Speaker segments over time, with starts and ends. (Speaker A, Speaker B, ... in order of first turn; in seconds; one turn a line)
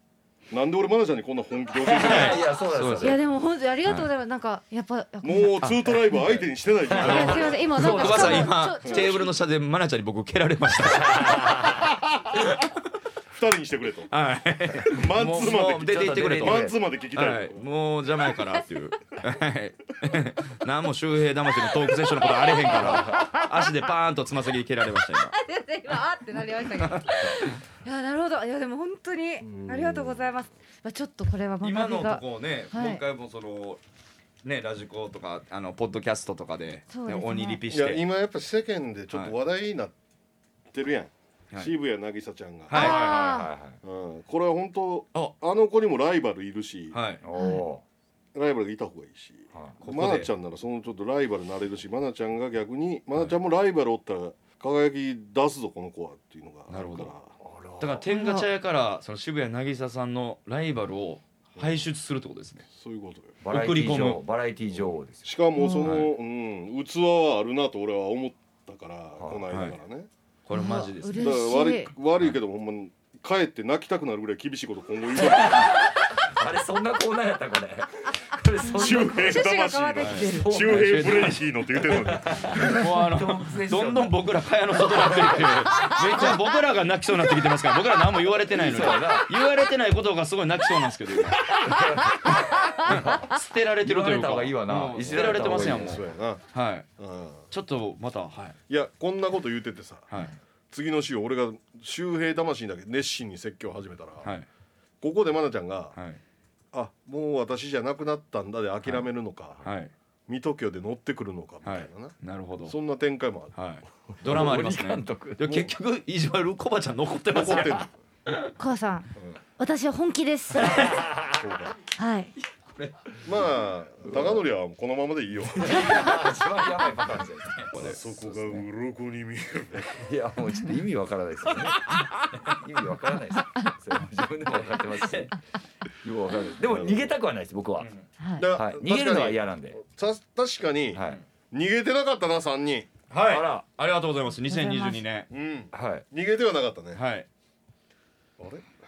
Speaker A: 0.5-2.4
Speaker B: 1.8-3.2
Speaker C: 1.9-3.2
Speaker D: 3.0-6.2
Speaker C: 3.8-4.1
Speaker A: 5.2-7.6
Speaker C: 5.6-6.3
Speaker B: 6.9-8.5
Speaker D: 6.9-9.3
Speaker C: 6.9-11.4
Speaker A: 8.8-9.1
Speaker B: 10.8-11.9
Speaker C: 12.4-12.7
Speaker A: 13.3-14.1
Speaker C: 14.1-25.3
Speaker A: 14.8-17.6
Speaker B: 15.8-16.8
Speaker D: 22.6-23.4
Speaker B: 22.8-23.3
Speaker D: 25.3-33.0
Speaker C: 26.8-27.6
Speaker A: 29.4-30.4
Speaker C: 31.6-33.8
Speaker C: 34.4-38.0
Speaker D: 36.9-37.6
Speaker A: 37.7-39.9
Speaker A: 40.7-42.9
Speaker C: 42.7-43.4
Speaker D: 42.7-43.5
Speaker B: 42.8-43.8
Speaker A: 43.8-47.0
Speaker C: 46.9-47.2
Speaker B: 47.2-47.8
Speaker D: 47.3-47.6
Speaker A: 48.3-57.4
Speaker C: 49.8-50.3
Speaker C: 56.7-57.1
Speaker B: 57.4-58.0
Speaker C: 57.8-62.6
Speaker D: 58.1-58.5
Speaker A: 61.5-61.8
Speaker A: 62.7-63.4
Speaker B: 63.4-65.3
Speaker C: 63.5-64.2
Speaker A: 64.8-70.1
Speaker D: 65.6-66.0
Speaker C: 65.8-66.1
Speaker B: 69.2-69.4
Speaker C: 70.5-71.3
Speaker D: 70.5-71.9
Speaker A: 71.2-75.8
Speaker B: 75.1-79.4
Speaker D: 78.6-80.6
Speaker A: 78.7-82.8
Speaker C: 80.0-91.5
Speaker B: 80.3-84.2
Speaker B: 84.8-86.4
Speaker B: 88.5-89.3
Speaker B: 91.6-93.3
Speaker C: 92.8-96.9
Speaker B: 93.8-96.1
Speaker A: 95.2-96.4
Speaker A: 97.0-97.4
Speaker C: 97.5-98.6
Speaker A: 98.7-100.1
Speaker C: 100.1-100.3
Speaker A: 100.7-104.3
Speaker A: 105.0-105.9
Speaker C: 105.9-106.2
Speaker A: 106.7-109.6
Speaker C: 109.6-109.9
Speaker A: 110.3-113.5
Speaker C: 111.6-112.8
Speaker C: 113.5-118.5
Speaker B: 114.2-115.7
Speaker A: 117.3-117.9
Speaker D: 118.6-121.0
Speaker C: 120.6-121.0
Speaker B: 120.6-121.5
Speaker A: 121.4-121.7
Speaker D: 122.0-122.3
Speaker C: 122.8-123.2
Speaker A: 123.2-125.8
Speaker B: 124.1-124.4
Speaker B: 125.5-128.7
Speaker D: 125.7-126.0
Speaker C: 127.5-127.9
Speaker A: 127.7-130.1
Speaker B: 129.8-135.3
Speaker C: 134.6-135.3
Speaker B: 136.0-139.8
Speaker A: 136.7-137.0
Speaker C: 137.8-138.1
Speaker D: 138.2-138.5
Speaker A: 138.4-142.9
Speaker B: 140.9-141.2
Speaker C: 143.1-145.3
Speaker B: 143.3-143.6
Speaker D: 144.5-145.0
Speaker A: 145.3-147.0
Speaker B: 145.7-146.0
Speaker C: 146.9-147.3
Speaker A: 148.4-148.6